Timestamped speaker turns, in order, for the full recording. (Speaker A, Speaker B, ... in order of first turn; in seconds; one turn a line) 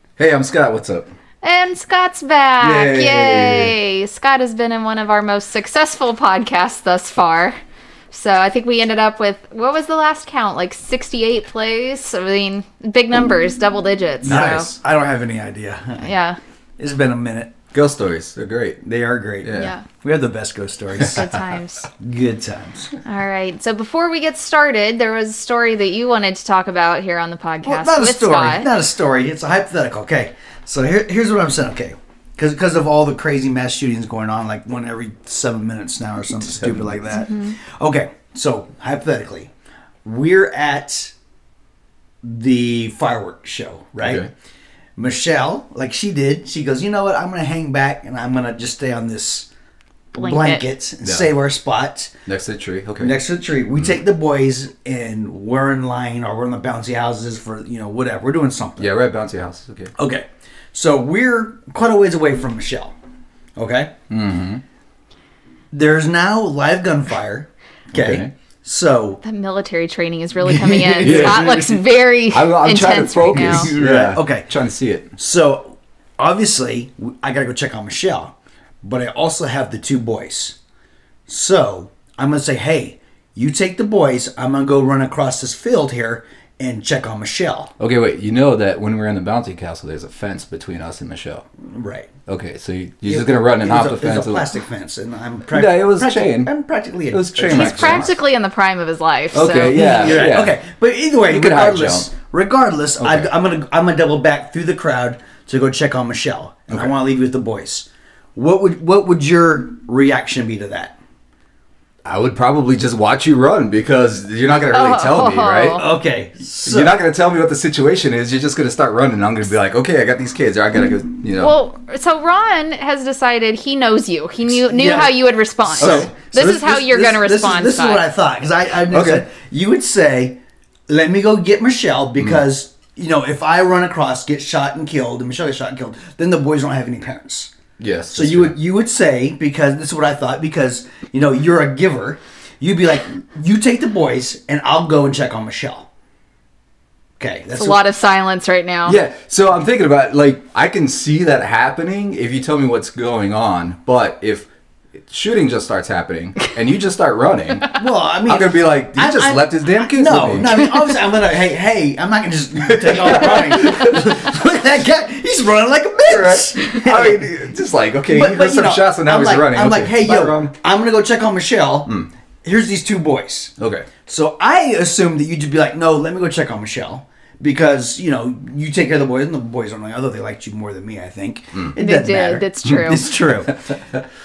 Speaker A: 0.2-1.1
Speaker B: 1.4-7.6
Speaker A: 2.6-3.8
Speaker B: 8.1-14.7
Speaker A: 14.2-14.8
Speaker C: 14.2-16.1
Speaker B: 16.0-16.4
Speaker C: 16.8-17.6
Speaker A: 17.7-18.9
Speaker C: 18.9-21.3
Speaker A: 19.4-19.7
Speaker B: 19.5-19.9
Speaker B: 21.1-21.9
Speaker C: 21.9-22.9
Speaker B: 23.0-28.7
Speaker C: 27.6-39.5
Speaker A: 36.5-37.0
Speaker B: 37.1-37.6
Speaker C: 40.0-41.1
Speaker C: 42.2-44.2
Speaker A: 44.0-44.3
Speaker C: 45.0-49.5
Speaker C: 50.1-52.1
Speaker B: 50.1-50.6
Speaker A: 51.0-51.3
Speaker A: 52.3-53.1
Speaker C: 53.0-58.9
Speaker A: 58.8-59.9
Speaker C: 60.0-63.0
Speaker C: 63.6-63.9
Speaker A: 64.1-64.6
Speaker C: 65.7-69.2
Speaker A: 67.9-68.3
Speaker B: 69.2-73.7
Speaker C: 70.4-71.8
Speaker A: 71.0-71.7
Speaker A: 72.2-75.1
Speaker C: 73.4-74.5
Speaker C: 75.2-80.6
Speaker C: 81.3-87.7
Speaker A: 87.8-91.5
Speaker C: 91.6-92.1
Speaker A: 92.3-94.5
Speaker C: 93.1-98.1
Speaker A: 95.5-96.5
Speaker A: 97.1-98.2
Speaker B: 97.5-100.2
Speaker A: 99.3-100.6
Speaker C: 99.7-111.0
Speaker A: 101.2-102.1
Speaker A: 103.0-103.3
Speaker A: 112.0-115.8
Speaker B: 114.7-115.9
Speaker C: 115.8-117.0
Speaker A: 116.6-121.5
Speaker B: 121.3-128.0
Speaker C: 124.6-137.5
Speaker A: 125.8-126.1
Speaker A: 128.9-129.2
Speaker A: 137.8-138.6
Speaker C: 138.1-145.9
Speaker C: 147.2-147.8
Speaker B: 147.6-149.0
Speaker A: 148.9-160.6
Speaker C: 157.7-167.3
Speaker A: 162.6-164.1
Speaker A: 166.1-170.6
Speaker C: 168.1-173.5
Speaker A: 173.6-173.9
Speaker C: 174.1-183.8
Speaker B: 181.8-183.1
Speaker A: 183.5-184.0